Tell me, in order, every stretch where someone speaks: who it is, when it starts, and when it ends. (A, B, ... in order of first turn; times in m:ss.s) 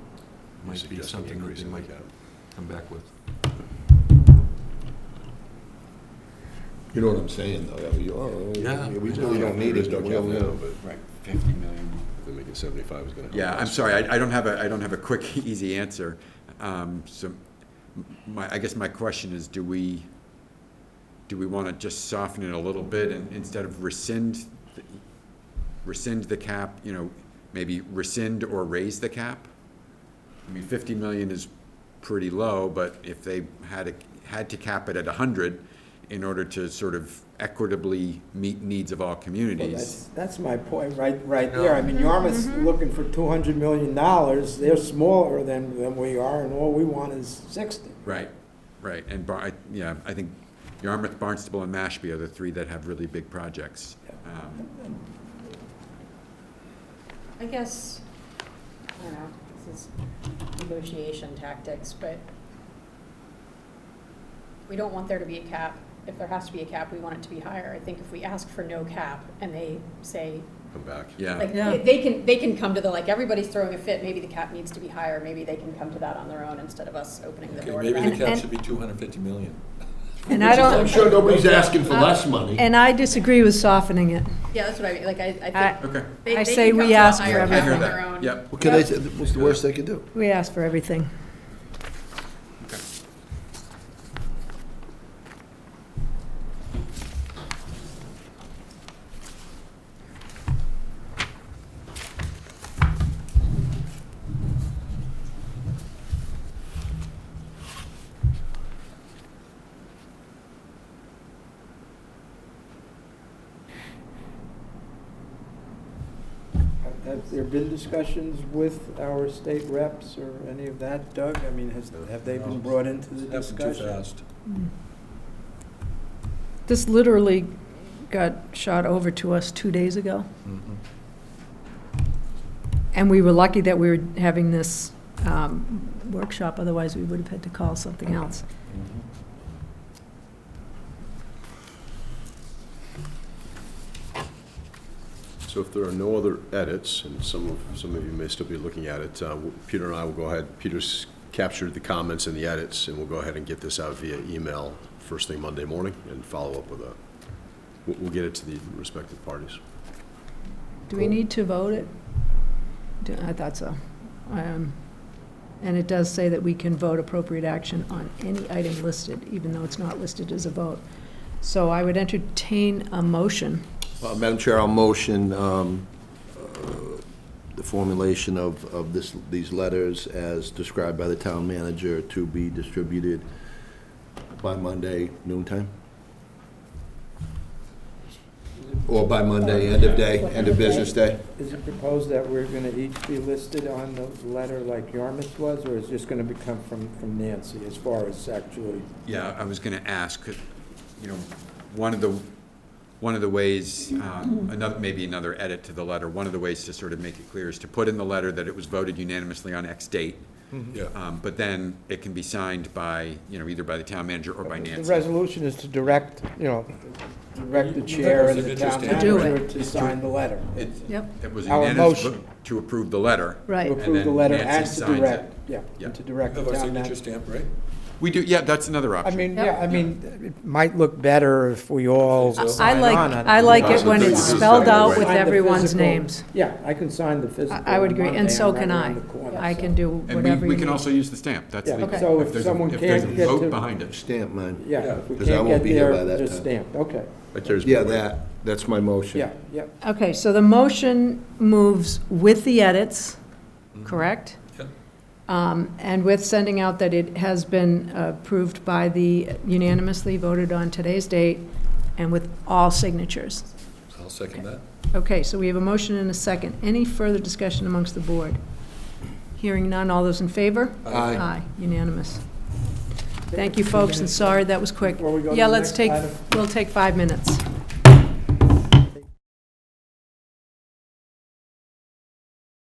0:00.6-0:01.9 A
0:00.7-0:02.1 B
0:02.5-0:03.1 A
0:06.9-0:10.6 C
0:08.6-0:09.9 A
0:09.1-0:10.8 B
0:10.8-0:12.1 D
0:12.1-0:14.1 B
0:13.3-0:17.4 D
0:17.9-0:20.1 D
0:21.3-0:24.9 D
0:25.8-0:29.5 D
0:30.5-0:31.5 D
0:32.0-0:40.0 D
0:39.5-0:48.1 E
0:41.5-0:41.9 A
0:41.9-0:42.7 F
0:48.0-0:54.7 D
0:57.4-0:58.0 G
0:59.0-0:59.9 G
1:00.6-1:02.2 G
1:04.7-1:10.5 G
1:10.7-1:11.2 B
1:11.2-1:11.5 D
1:11.4-1:18.3 G
1:11.5-1:11.8 F
1:17.4-1:19.6 A
1:18.0-1:18.5 F
1:20.3-1:21.1 F
1:20.3-1:21.9 A
1:20.3-1:22.6 C
1:21.9-1:24.3 F
1:24.5-1:28.4 G
1:25.5-1:28.0 F
1:25.8-1:26.2 D
1:26.9-1:28.6 D
1:28.5-1:30.1 C
1:30.1-1:31.1 F
1:56.8-2:04.0 E
2:02.0-2:04.2 A
2:06.7-2:10.3 F
2:10.4-2:10.8 A
2:12.9-2:18.4 F
2:18.7-2:19.0 A
2:25.4-2:37.0 B
2:37.8-2:39.6 B
2:40.9-2:41.9 F
2:43.0-2:44.8 F
2:45.6-2:50.8 F
2:51.4-2:53.6 F
2:54.0-2:57.0 C
2:57.6-3:03.3 C
3:04.4-3:05.7 C
3:08.9-3:11.2 C
3:09.4-3:11.0 G
3:10.3-3:10.5 E
3:11.2-3:18.9 E
3:19.0-3:20.4 D
3:21.0-3:22.3 D
3:23.0-3:30.3 D
3:30.8-3:35.1 D
3:34.4-3:40.5 E
3:37.5-3:40.0 A
3:38.9-3:39.4 F
3:40.5-3:46.0 D
3:40.9-3:41.1 F
3:41.4-3:42.2 E
3:43.5-3:43.8 F
3:43.6-3:47.0 E
3:46.2-3:47.5 A
3:48.0-3:49.5 D
3:49.0-3:59.8 E
3:52.0-3:55.1 A
3:52.4-3:56.2 F
3:53.9-3:54.5 B
3:57.5-4:00.8 F
4:00.1-4:03.9 D
4:01.6-4:03.6 E
4:01.8-4:02.1 F
4:03.1-4:06.5 C
4:04.6-4:07.1 E
4:04.8-4:05.1 A
4:07.3-4:08.1 B
4:07.6-4:09.3 C
4:09.1-4:09.7 E
4:09.8-4:13.2 F
4:13.8-4:14.7 A
4:13.8-4:14.4 F
4:15.3-4:23.5 F
4:23.9-4:24.6 A
4:24.9-4:28.4 F
4:29.4-4:32.2 F
4:30.8-4:31.3 A
4:33.3-4:36.2 E
4:33.3-4:37.4 F